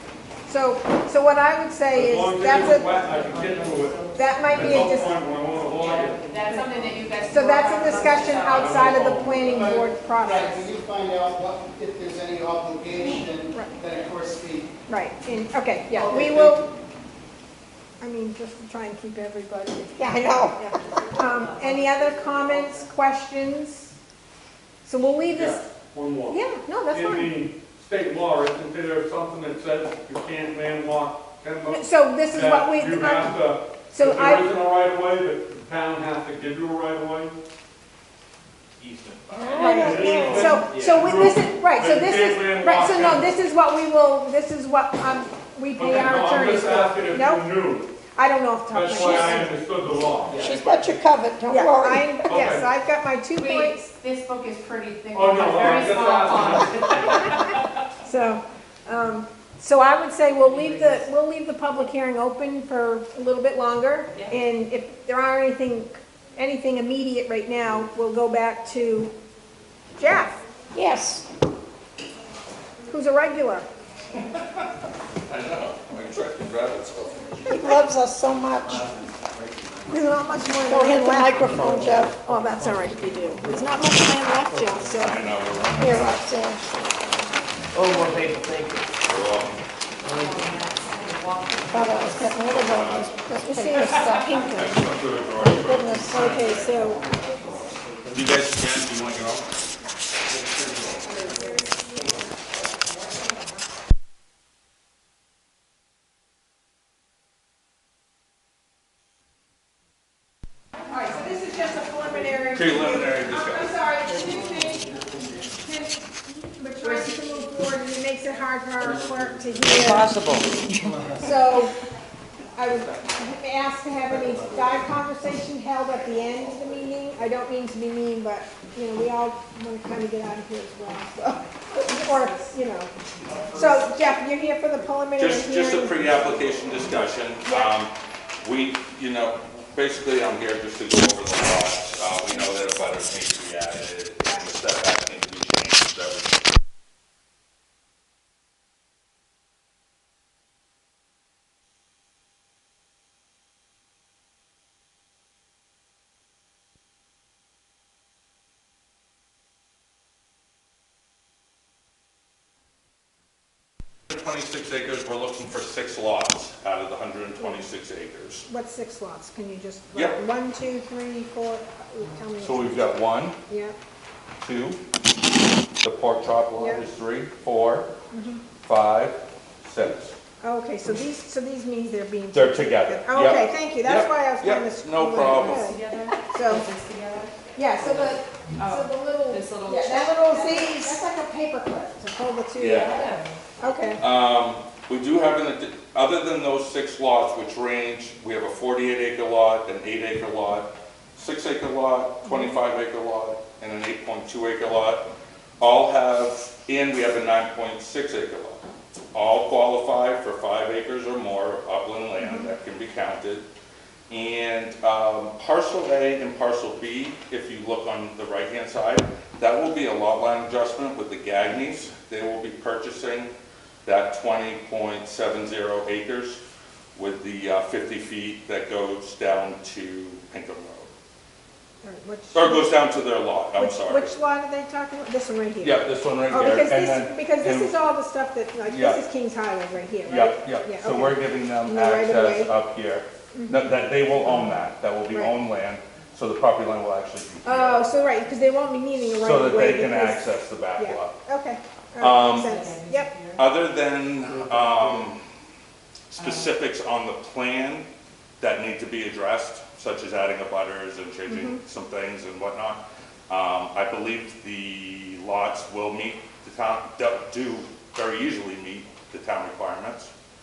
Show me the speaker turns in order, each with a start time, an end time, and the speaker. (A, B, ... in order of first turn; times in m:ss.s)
0:00.5-0:02.9 A
0:01.9-0:06.3 B
0:02.6-0:04.9 C
0:04.1-0:05.2 A
0:05.5-0:08.9 C
0:07.3-0:10.6 A
0:08.2-0:09.6 B
0:09.4-0:14.8 D
0:10.3-0:10.6 C
0:14.9-0:16.7 A
0:15.9-0:16.7 D
0:18.0-0:20.6 A
0:20.0-0:20.6 E
0:20.6-0:22.1 C
0:21.1-0:23.9 A
0:24.8-0:25.6 A
0:25.2-0:37.4 B
0:26.3-0:27.4 A
0:31.7-0:34.6 A
0:38.8-0:39.6 F
0:39.1-0:39.7 G
0:39.3-0:40.6 E
0:39.6-0:47.5 A
0:39.7-0:43.4 B
0:40.6-0:41.2 G
0:45.8-0:47.9 B
0:48.2-0:49.6 A
0:48.7-0:50.9 B
0:48.9-0:49.2 E
0:50.3-0:52.3 E
0:50.3-0:50.8 G
0:51.5-0:53.8 A
0:52.3-0:52.7 B
0:53.4-0:57.5 C
0:55.1-0:57.3 B
0:58.0-1:09.1 A
1:00.6-1:01.0 C
1:10.0-1:10.4 A
1:10.7-1:11.2 E
1:12.9-1:13.7 A
1:14.2-1:14.6 F
1:15.3-1:17.3 F
1:17.5-1:17.8 A
1:17.5-1:18.9 E
1:19.9-1:21.5 A
1:20.6-1:22.1 E
1:21.4-1:23.7 G
1:22.2-1:25.3 A
1:24.5-1:25.2 G
1:24.9-1:26.2 F
1:25.8-1:26.8 E
1:27.7-1:28.9 G
1:29.0-1:29.6 F
1:30.0-1:30.6 G
1:30.1-1:32.4 C
1:31.7-1:34.9 E
1:32.3-1:36.9 F
1:33.4-1:34.6 A
1:35.4-1:36.6 E
1:36.1-1:37.0 A
1:37.8-1:38.2 G
1:38.1-1:39.5 F
1:40.4-1:41.6 G
1:41.0-1:42.2 A
1:50.9-1:55.0 A
1:52.5-1:53.8 F
1:55.5-2:00.2 A
1:59.7-2:01.3 G
2:01.2-2:01.7 A
2:02.5-2:12.9 A
2:11.9-2:12.5 C
2:13.5-2:16.0 A
2:15.2-2:26.4 F
2:17.4-2:17.8 A
2:44.1-2:48.5 F
2:47.4-2:47.7 A
2:48.5-2:53.8 A
2:49.9-2:50.2 F
2:52.4-2:53.4 F
2:54.4-2:54.8 F
2:55.8-2:57.9 F
2:56.6-2:56.8 A
2:58.1-2:58.4 A
2:58.6-3:00.2 F
3:00.4-3:06.7 A
3:02.3-3:05.7 F
3:05.3-3:10.9 C
3:07.6-3:14.0 A
3:12.6-3:13.1 F
3:12.8-3:13.4 C
3:14.0-3:25.1 F
3:22.2-3:22.6 A
3:25.6-3:33.4 F
3:32.2-3:32.5 A
3:34.1-3:43.3 F
3:43.8-3:46.4 F
3:47.0-3:50.9 F
3:51.8-3:52.8 A
3:52.3-3:54.1 F
3:53.6-4:02.5 A
3:55.6-3:57.8 F
3:58.6-3:59.0 F
4:00.0-4:07.9 F
4:03.3-4:03.6 A
4:07.4-4:13.2 A
4:09.1-4:11.2 F
4:12.0-4:12.5 F
4:12.3-4:13.5 C
4:13.4-4:15.2 F
4:14.2-4:15.1 G
4:16.1-4:17.9 F
4:16.2-4:16.5 C
4:18.4-4:30.1 F
4:21.3-4:21.6 A